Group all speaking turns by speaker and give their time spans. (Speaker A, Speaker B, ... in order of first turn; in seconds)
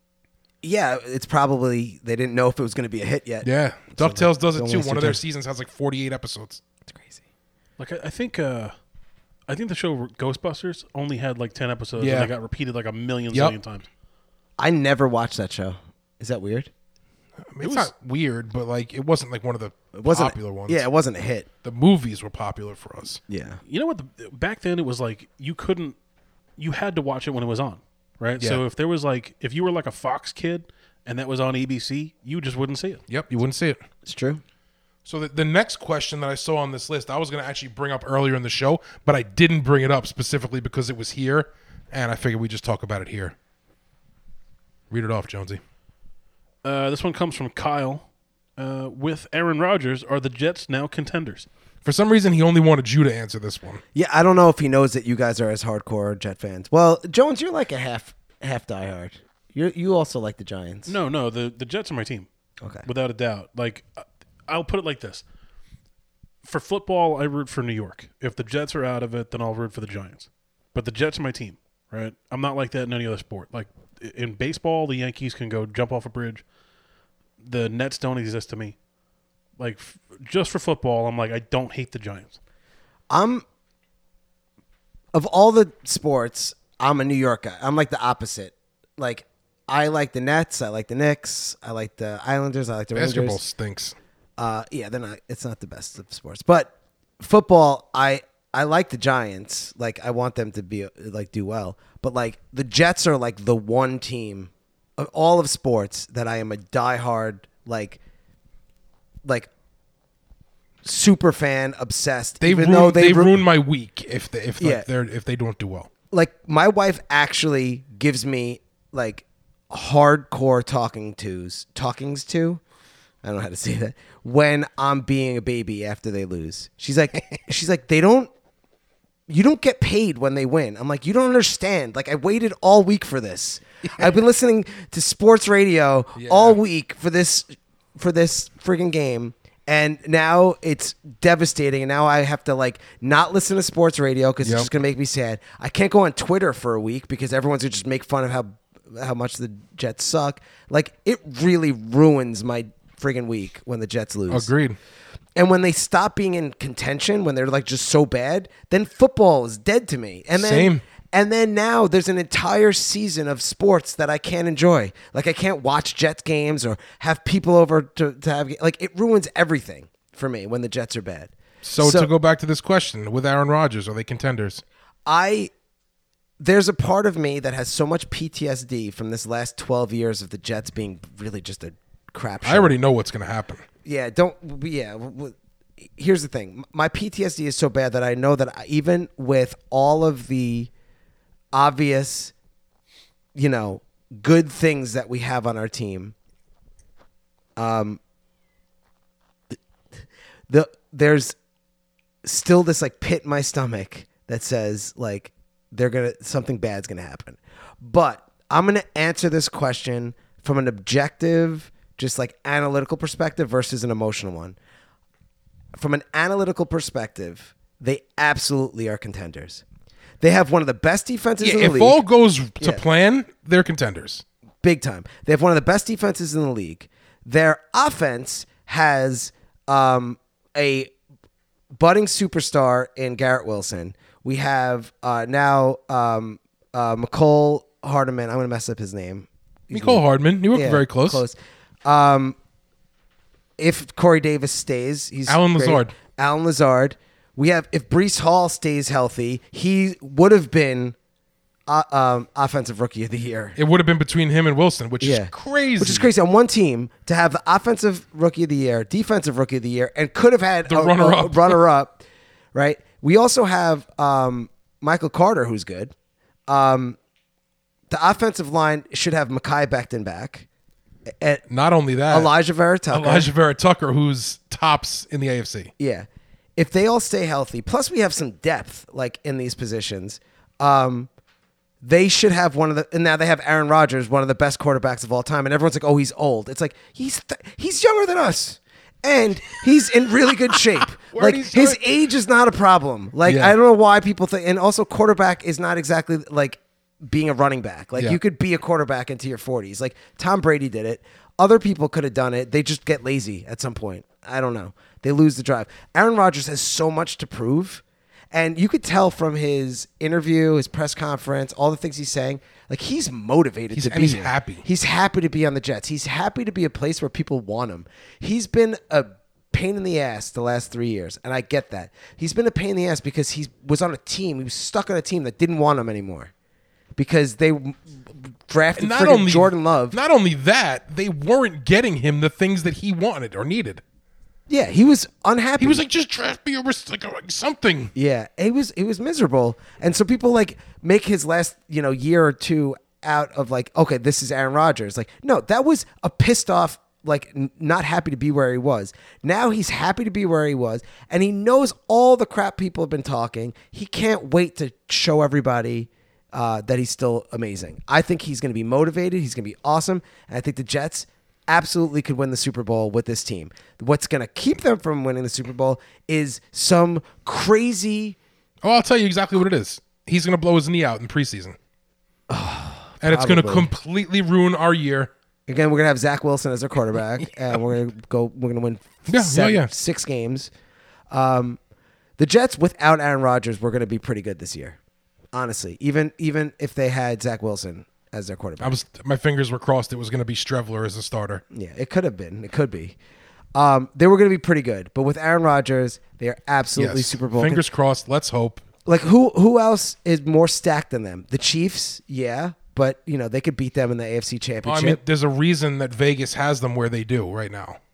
Speaker A: 0.6-5.2, 6.9-7.2, 14.6-16.7, 19.9-21.5, 23.3-23.6, 34.0-34.4, 53.9-61.0, 83.1-83.5, 85.1-93.4, 94.4-108.0, 110.8-113.4, 114.6-114.9, 116.1-122.6, 123.2-128.3, 129.3-154.5, 155.4-172.1, 175.1-175.5, 176.4-182.7, 183.8-190.7, 191.5-192.3, 193.3-196.1, 197.6-198.0, 200.5-201.4, 202.2-214.6, 215.8-219.6, 220.2-222.0, 224.6-230.9, 231.7-242.4, 243.6-250.9, 251.7-253.6, 255.0-265.9, 266.5-267.0, 267.9-270.5, 272.1-273.3, 275.8-281.1, 281.8-326.3, 327.0-330.0, 334.5-335.9, 337.9-368.2, 372.3-373.7, 375.5-380.5, 381.1-381.6, 382.2-384.8, 385.3-388.8, 391.5-393.0, 393.6-397.6, 398.9-405.0
Speaker B: 3.4-6.6, 12.0-12.3, 13.3-13.6, 17.5-20.8, 21.6-23.2, 33.1-33.8, 35.0-43.4, 44.9-45.6, 51.9-53.8, 92.9-94.0, 112.4-115.9, 136.2-136.6, 144.4-144.7, 154.3-154.8, 160.3-160.8, 171.6-174.6, 182.4-183.6, 221.4-224.2, 239.7-241.2, 245.3-245.9, 253.6-256.1, 260.7-261.6, 271.5-272.3, 272.9-275.7, 291.1-291.8, 293.2-293.6, 313.7-314.6, 328.8-333.8, 335.6-337.9, 368.6-371.6, 373.0-375.1, 379.1-379.7, 388.6-391.4, 396.8-398.6, 404.6-407.8
Speaker C: 7.8-8.7, 9.5-13.9, 17.6-17.9, 23.7-26.0, 26.6-33.0, 46.6-48.1, 48.6-51.5, 60.9-62.3, 62.9-65.2, 66.4-76.4, 77.4-78.8, 79.6-82.4